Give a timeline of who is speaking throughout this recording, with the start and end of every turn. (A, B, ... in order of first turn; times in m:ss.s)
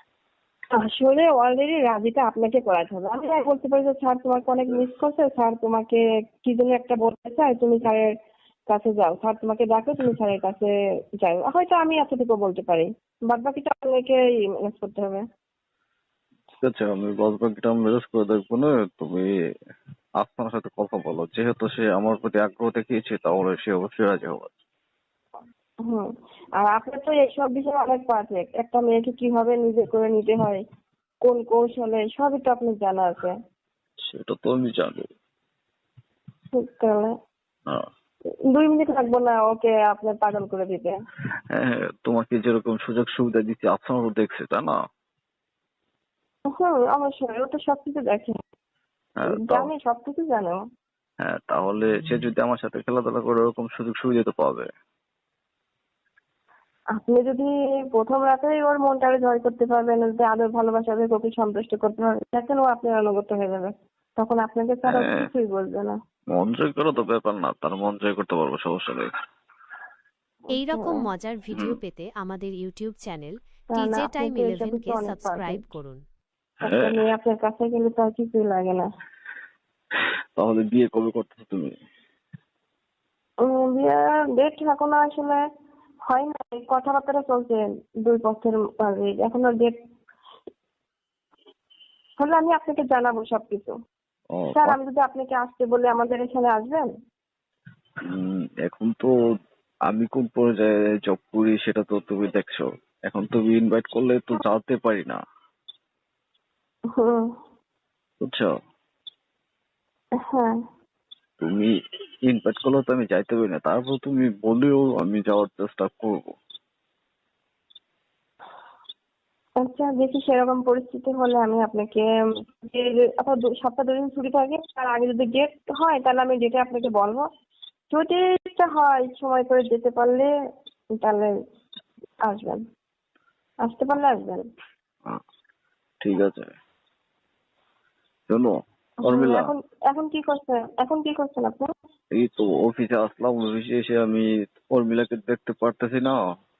0:00.7-0:08.1 A
0:08.7-0:15.2 A
0:16.6-0:19.3 B
0:20.2-0:24.5 B
0:26.6-0:30.6 A
0:31.2-0:33.3 A
0:34.0-0:35.1 B
0:36.5-0:37.1 A
0:38.5-0:40.9 A
0:41.5-0:44.8 B
0:46.5-0:48.4 A
0:49.2-0:49.7 B
0:49.3-0:50.6 A
0:51.2-0:54.7 B
0:57.0-1:06.0 A
1:04.9-1:05.2 B
1:06.3-1:09.1 B
1:10.5-1:16.0 C
1:10.7-1:11.0 A
1:13.7-1:15.6 A
1:16.6-1:18.9 A
1:16.6-1:17.0 B
1:20.4-1:21.7 B
1:23.4-1:25.4 A
1:26.1-1:29.7 A
1:32.2-1:33.7 A
1:34.3-1:34.8 B
1:34.6-1:36.9 A
1:38.1-1:39.1 B
1:39.9-1:45.2 B
1:46.9-1:47.3 A
1:48.2-1:48.5 B
1:50.2-1:50.6 A
1:51.4-1:51.7 B
1:52.2-1:56.3 B
1:59.6-2:02.1 A
2:02.6-2:07.2 A
2:07.9-2:10.3 A
2:11.0-2:11.3 A
2:12.2-2:12.6 A
2:13.6-2:14.4 A
2:16.0-2:16.5 B
2:18.3-2:19.5 B
2:19.0-2:21.7 A
2:22.2-2:26.2 B